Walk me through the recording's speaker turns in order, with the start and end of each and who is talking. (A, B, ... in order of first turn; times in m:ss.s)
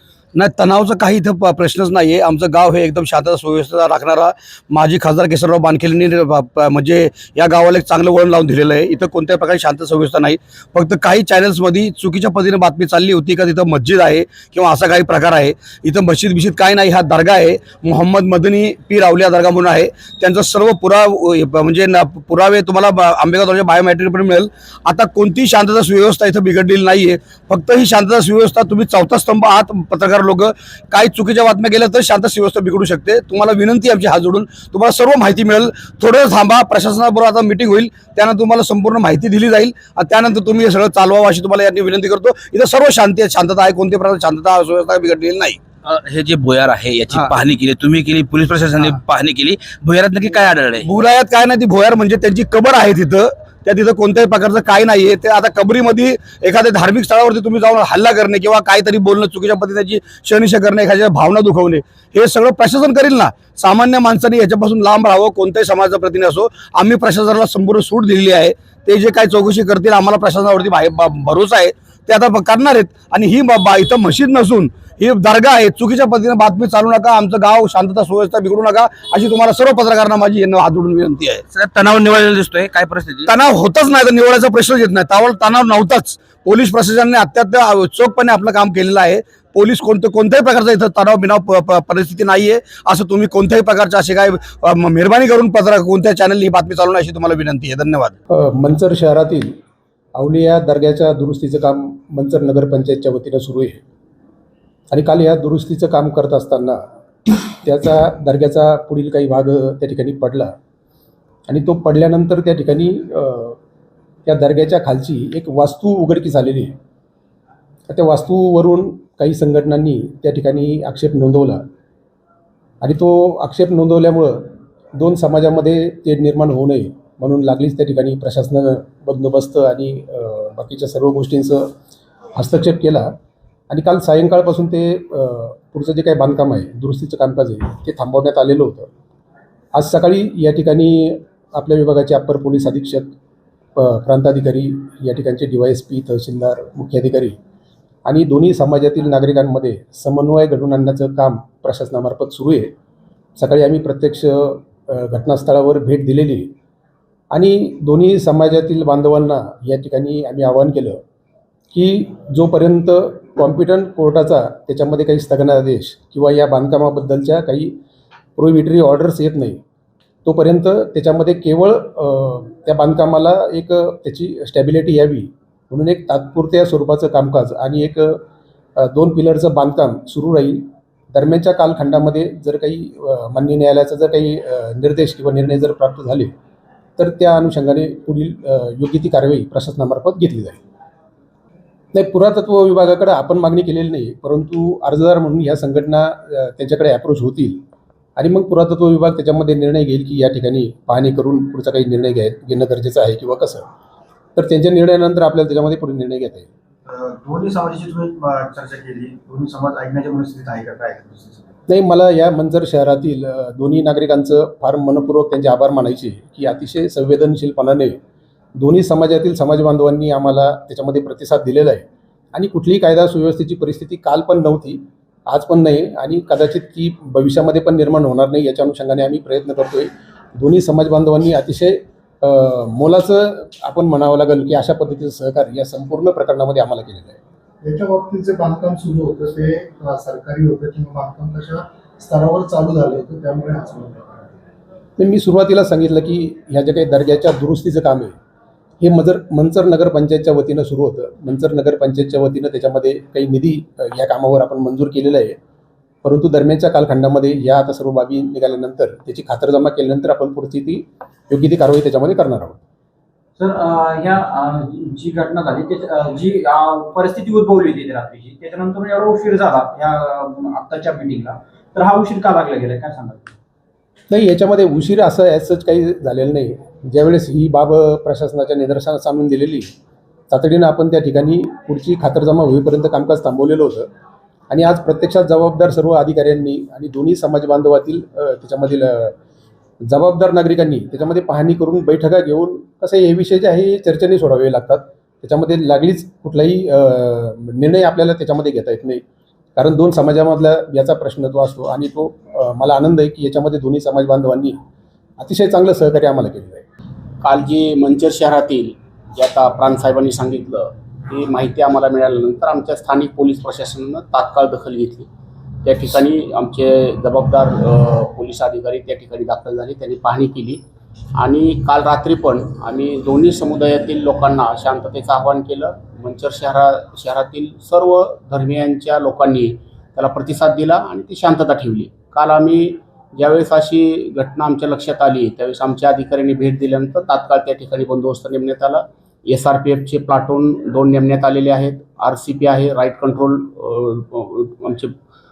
0:00.4-0:45.6 A
0:45.8-0:50.9 B
0:50.8-1:21.4 A
1:21.5-1:23.3 B
1:23.3-1:38.2 A
1:38.3-1:39.5 C
1:40.2-1:43.8 C
1:44.9-1:46.8 C
1:47.6-1:50.5 C
1:51.5-1:53.6 C
1:54.3-1:56.8 C
1:57.9-2:01.6 C
2:02.8-2:11.7 C
2:12.4-2:13.1 C
2:13.7-2:18.9 C
2:19.7-2:23.2 C
2:23.8-2:27.4 C
2:28.1-2:32.7 C
2:33.4-2:36.5 C
2:37.3-2:41.0 C
2:41.7-2:47.8 C
2:48.4-2:49.6 C
2:50.2-2:58.2 C
2:58.8-3:06.3 C
3:07.0-3:10.6 C
3:11.9-3:17.6 C
3:18.2-3:23.7 C
3:24.4-3:26.5 C
3:26.9-3:31.5 D
3:31.7-3:38.0 C
3:38.6-3:57.2 C
3:57.6-4:04.2 E
4:05.0-4:08.2 C
4:08.8-4:15.4 C
4:16.0-4:22.6 C
4:23.4-4:33.3 F
4:34.1-4:39.7 C
4:40.3-4:43.9 C
4:44.5-4:49.2 C
4:49.9-4:59.0 C
4:59.6-5:04.6 C
5:05.2-5:06.6 C
5:07.2-5:15.1 G
5:15.6-5:20.6 G
5:21.2-5:44.9 G